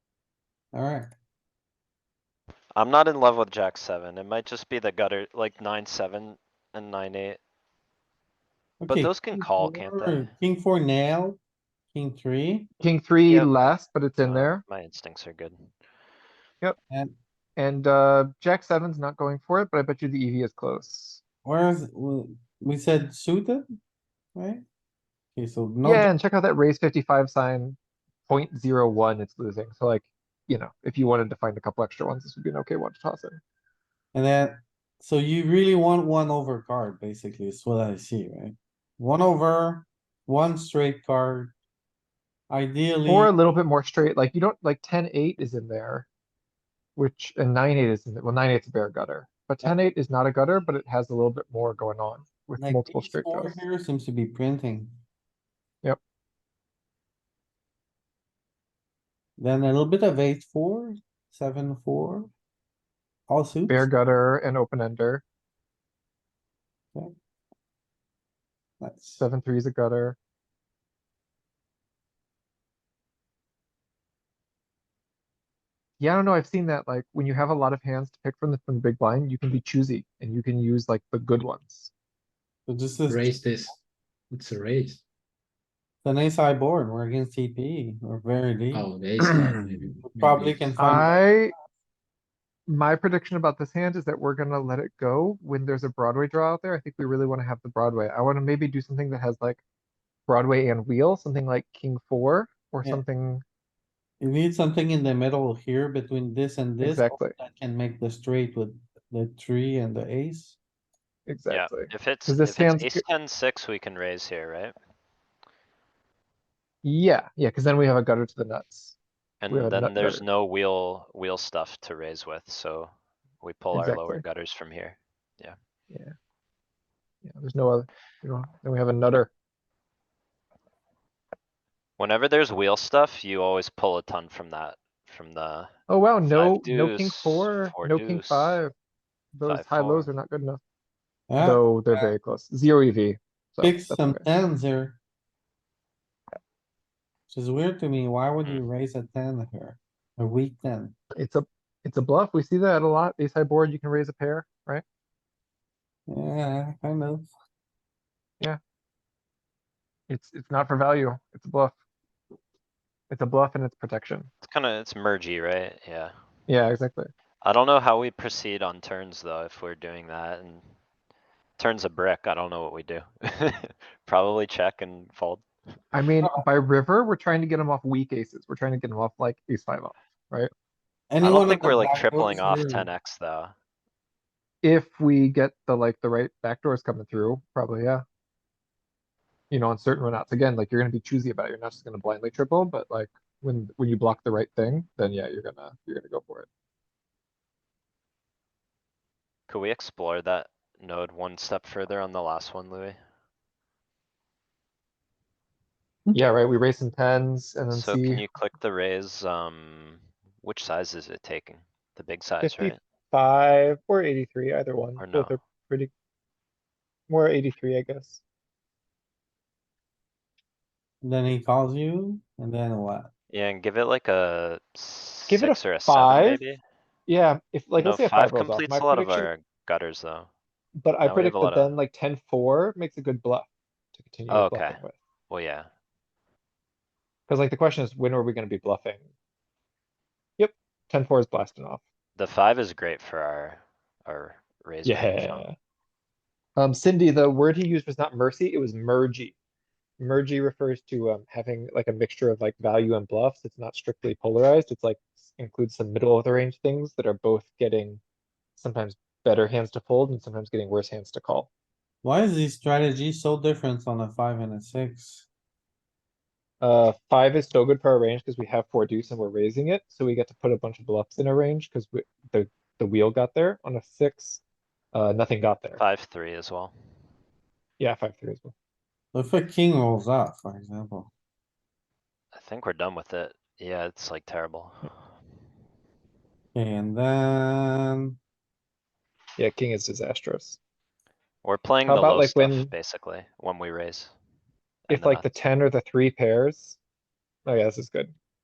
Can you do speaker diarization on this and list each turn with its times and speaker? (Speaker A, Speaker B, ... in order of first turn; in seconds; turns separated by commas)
Speaker A: 0.7-1.1, Speaker B: 2.7-7.4, Speaker A: 8.8-11.4, Speaker B: 8.8-10.3, Speaker A: 11.9-12.7, Speaker C: 12.8-14.6, Speaker B: 13.3-13.5, Speaker B: 14.2-15.7, Speaker A: 16.9-17.1, Speaker C: 17.6-21.2, Speaker A: 21.4-23.7, Speaker A: 24.3-24.6, Speaker A: 25.3-26.1, Speaker C: 25.8-33.4, Speaker A: 34.1-41.5, Speaker A: 42.5-43.3, Speaker C: 43.0-46.1, Speaker C: 47.0-53.6, Speaker A: 52.6-55.0, Speaker A: 59.4-62.3, Speaker A: 63.3-63.9, Speaker C: 63.7-65.2, Speaker A: 68.8-69.2, Speaker C: 69.2-70.2, Speaker C: 76.0-81.9, Speaker A: 82.7-83.7, Speaker D: 83.1-83.8, Speaker D: 84.3-85.0, Speaker A: 86.0-91.2, Speaker D: 88.7-91.2, Speaker C: 90.8-91.5, Speaker C: 92.7-99.6, Speaker C: 100.3-103.4, Speaker A: 104.2-110.6, Speaker C: 106.8-107.3, Speaker C: 111.3-113.0, Speaker B: 111.5-114.8, Speaker C: 116.8-119.0, Speaker B: 119.4-125.5, Speaker C: 119.5-120.2, Speaker C: 123.7-124.2, Speaker C: 127.2-129.3, Speaker B: 132.0-135.7, Speaker C: 135.9-138.7, Speaker B: 136.2-138.6, Speaker C: 139.3-140.6, Speaker B: 139.4-140.1, Speaker A: 141.3-142.1, Speaker C: 141.4-144.2, Speaker A: 143.6-145.0, Speaker A: 147.3-150.9, Speaker C: 151.2-154.8, Speaker A: 156.1-157.3, Speaker C: 160.1-161.7, Speaker C: 163.1-164.3, Speaker B: 164.4-166.1, Speaker C: 166.5-167.1, Speaker B: 167.4-170.6, Speaker B: 171.6-175.4, Speaker C: 175.9-180.5, Speaker A: 181.1-182.9, Speaker B: 181.2-183.5, Speaker C: 184.6-188.0, Speaker C: 189.5-196.5, Speaker B: 199.5-203.0, Speaker C: 206.1-208.2, Speaker B: 207.7-212.8, Speaker C: 212.4-215.9, Speaker B: 215.0-215.3, Speaker C: 217.1-218.2, Speaker A: 221.0-223.1, Speaker B: 223.3-226.6, Speaker C: 225.3-226.4, Speaker C: 227.1-229.3, Speaker B: 227.8-230.3, Speaker C: 230.8-234.9, Speaker B: 231.0-231.8, Speaker B: 234.3-234.8, Speaker B: 235.3-235.7, Speaker C: 237.3-239.0, Speaker C: 240.4-241.8, Speaker B: 242.2-245.5, Speaker C: 244.8-245.5, Speaker C: 246.6-249.3, Speaker C: 250.0-258.0, Speaker C: 258.6-261.5, Speaker A: 262.0-265.3, Speaker C: 266.6-274.4, Speaker C: 274.9-275.8, Speaker B: 275.8-276.7, Speaker C: 277.8-278.5, Speaker A: 279.1-281.1, Speaker B: 282.3-284.9, Speaker A: 286.5-288.2, Speaker C: 289.4-290.6, Speaker B: 291.4-294.1, Speaker C: 291.8-292.7, Speaker B: 294.9-295.2, Speaker C: 294.9-296.8, Speaker C: 297.4-298.1